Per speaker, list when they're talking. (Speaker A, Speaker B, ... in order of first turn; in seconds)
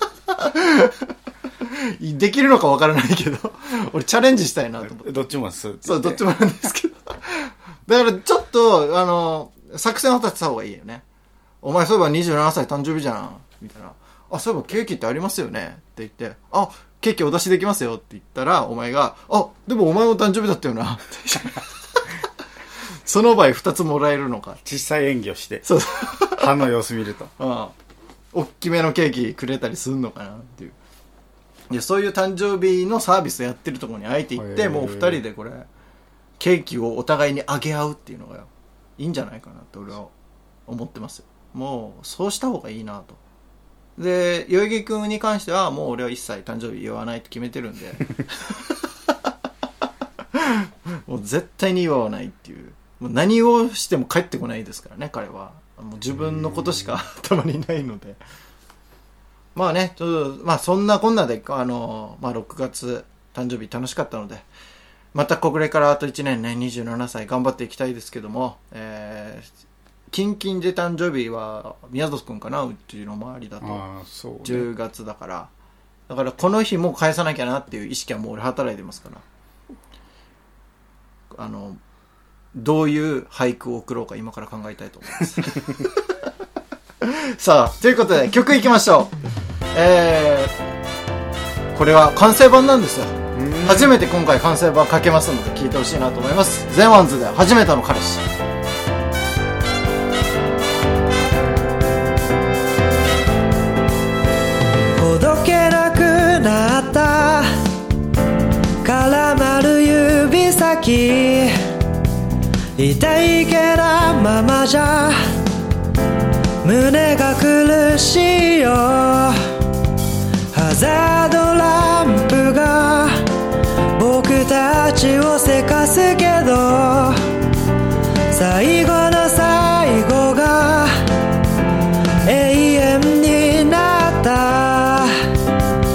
Speaker A: 0.3-5.1, 5.8-11.0, 11.6-21.6, 23.0-24.6, 25.6-26.6, 27.4-27.7, 28.3-30.8, 31.7-35.7, 36.4-40.1, 40.7-43.2, 44.0-49.1, 50.3-58.2, 59.5-64.5, 65.1-69.5, 70.1-73.8, 74.4-75.5, 76.1-79.2, 81.3-81.8, 82.5-86.1, 87.0-89.1, 89.7-90.6, 91.7-98.2
Speaker B: 4.8-6.2, 24.6-25.7, 26.2-27.3, 34.4-35.2, 56.2-56.8, 73.6-74.7, 93.3-94.0
Speaker C: 105.0-107.5, 108.8-111.6, 112.8-115.4, 116.6-119.5, 120.5-123.3, 123.9-127.3, 128.3-131.0, 132.2-135.2